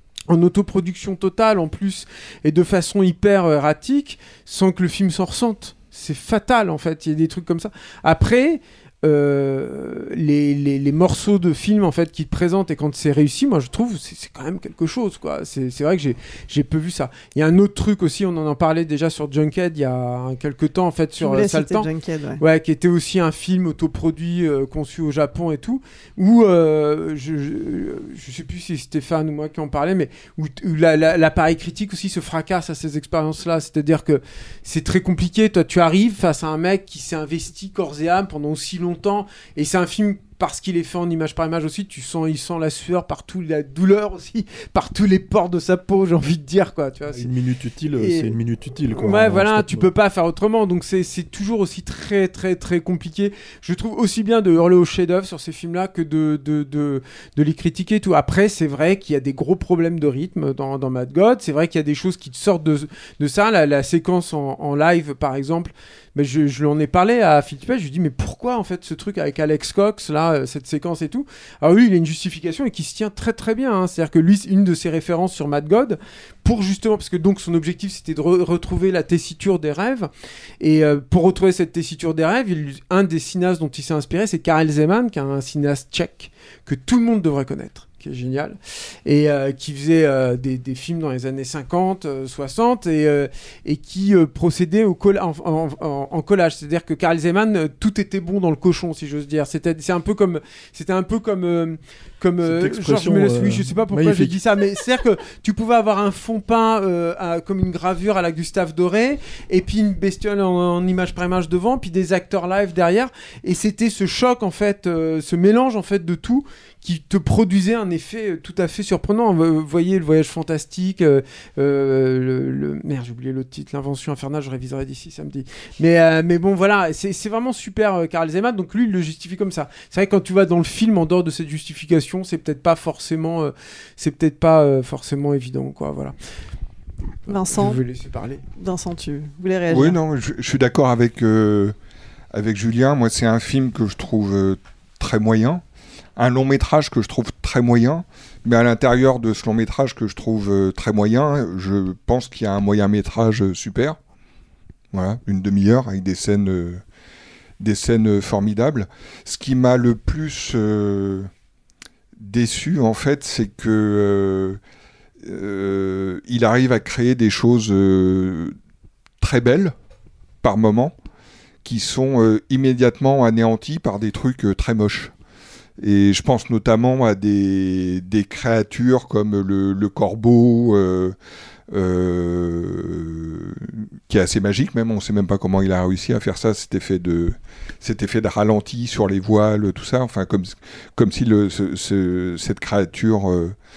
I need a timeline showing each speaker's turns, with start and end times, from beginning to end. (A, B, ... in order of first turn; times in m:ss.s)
0:00.3-0:47.3 A
0:21.2-0:22.4 B
0:47.1-0:49.9 C
0:48.0-0:48.3 A
0:48.9-2:16.2 A
1:42.4-1:44.4 C
2:17.3-2:18.4 A
2:17.3-2:17.8 B
2:18.6-2:20.0 B
2:19.7-2:21.8 D
2:22.3-2:25.6 D
2:26.2-2:34.0 D
2:34.9-2:36.8 D
2:37.6-2:41.3 D
2:42.2-2:44.6 D
2:45.2-2:48.6 D
2:49.2-2:49.7 D
2:50.4-2:51.0 D
2:51.6-2:55.1 D
2:55.8-3:01.2 D
3:01.7-3:13.6 D